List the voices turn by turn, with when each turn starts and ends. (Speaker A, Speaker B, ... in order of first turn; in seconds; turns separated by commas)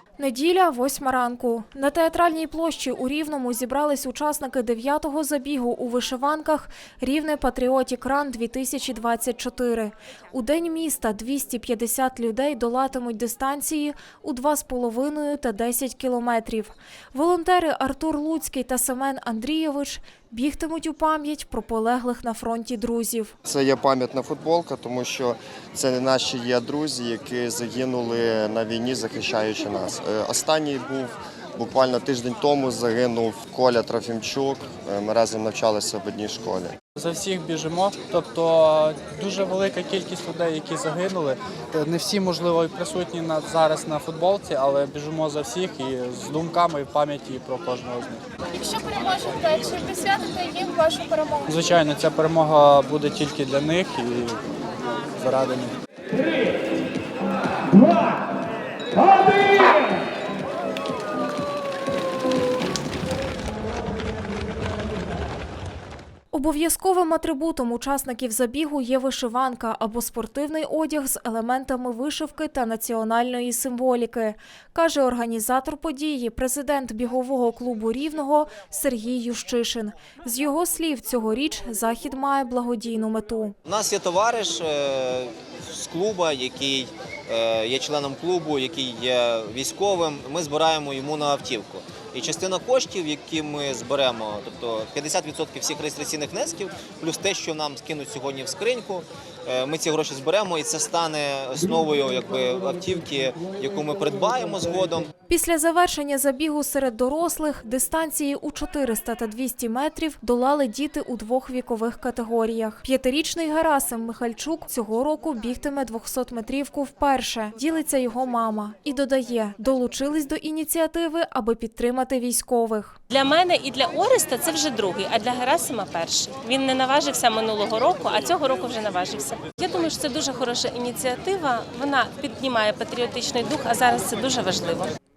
Speaker A: 0.2-23.3, Speaker B: 23.4-36.8, Speaker C: 37.0-48.2, Speaker D: 48.5-51.5, Speaker C: 51.5-54.4, Speaker C: 55.1-55.8, Speaker A: 66.3-83.5, Speaker E: 83.7-105.1, Speaker A: 105.3-123.0, Speaker F: 123.1-134.9